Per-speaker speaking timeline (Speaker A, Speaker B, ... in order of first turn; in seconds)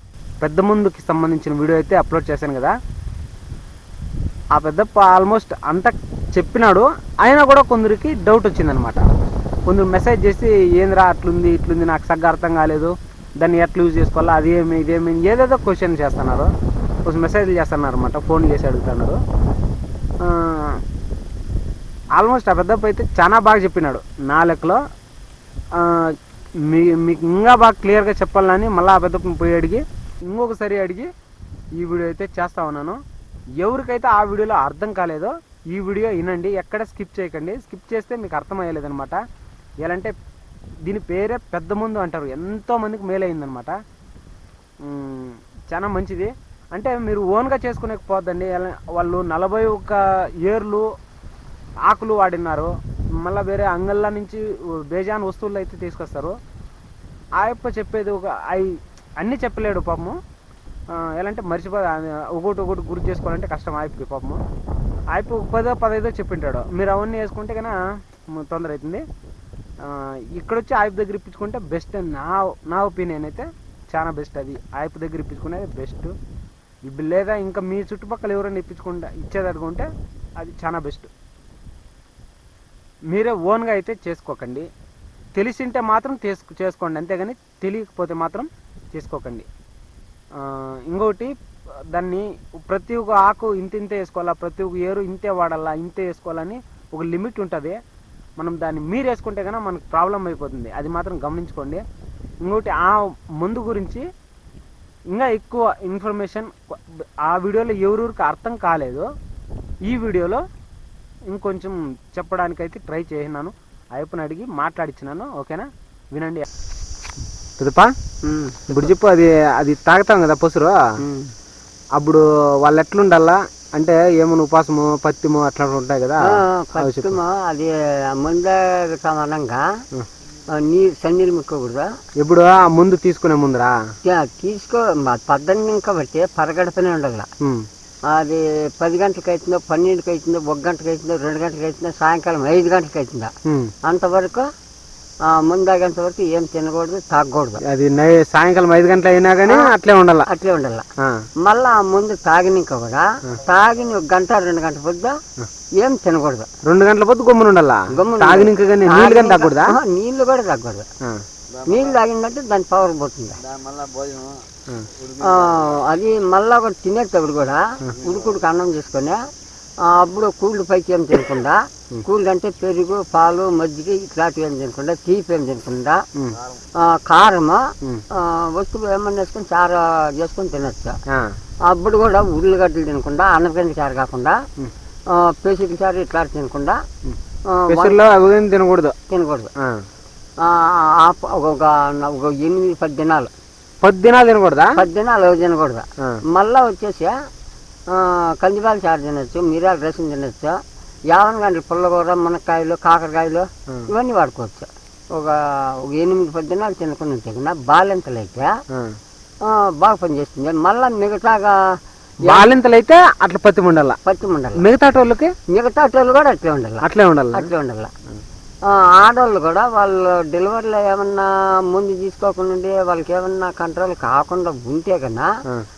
Speaker A: 0.4-2.7, 4.5-9.1, 9.7-16.5, 17.0-19.2, 20.2-20.8, 22.1-24.8, 25.7-31.1, 31.7-33.0, 33.6-39.2, 39.8-40.1, 40.8-43.8, 44.8-50.9, 51.8-56.4, 57.4-60.2, 60.9-64.4, 65.1-69.0, 69.8-76.1, 76.8-81.1, 83.1-84.7, 85.3-89.5, 90.3-91.3, 91.9-97.8, 98.4-101.8, 102.4-104.0, 105.1-109.1, 109.8-110.4, 111.3-116.5, 117.6-117.9, 118.7-120.8, 122.0-127.2, 132.2-133.8, 137.4-137.7, 143.4-143.7, 147.6-150.3, 151.0-151.2, 156.6-159.8, 164.7-164.9, 176.2-176.4, 181.1-181.3, 187.7-188.9, 189.6-189.8, 193.8-194.8, 208.7-209.0, 212.2-214.0, 214.6-215.3, 216.8-217.5
Speaker B: 118.2-118.9, 121.0-121.3, 126.2-129.6, 130.5-131.9, 134.0-137.3, 138.1-143.3, 143.8-144.5, 145.2-147.6, 149.4-149.7, 150.3-150.8, 151.4-155.2, 155.8-156.5, 157.9-160.9, 161.6-163.4, 165.1-169.2, 169.8-176.1, 176.8-181.0, 181.6-184.4, 185.1-186.8, 187.5-188.0, 189.1-189.5, 190.4-193.3, 194.7-197.2, 197.9-208.5, 209.4-212.5, 214.0-214.7, 215.5-217.9, 218.6-225.3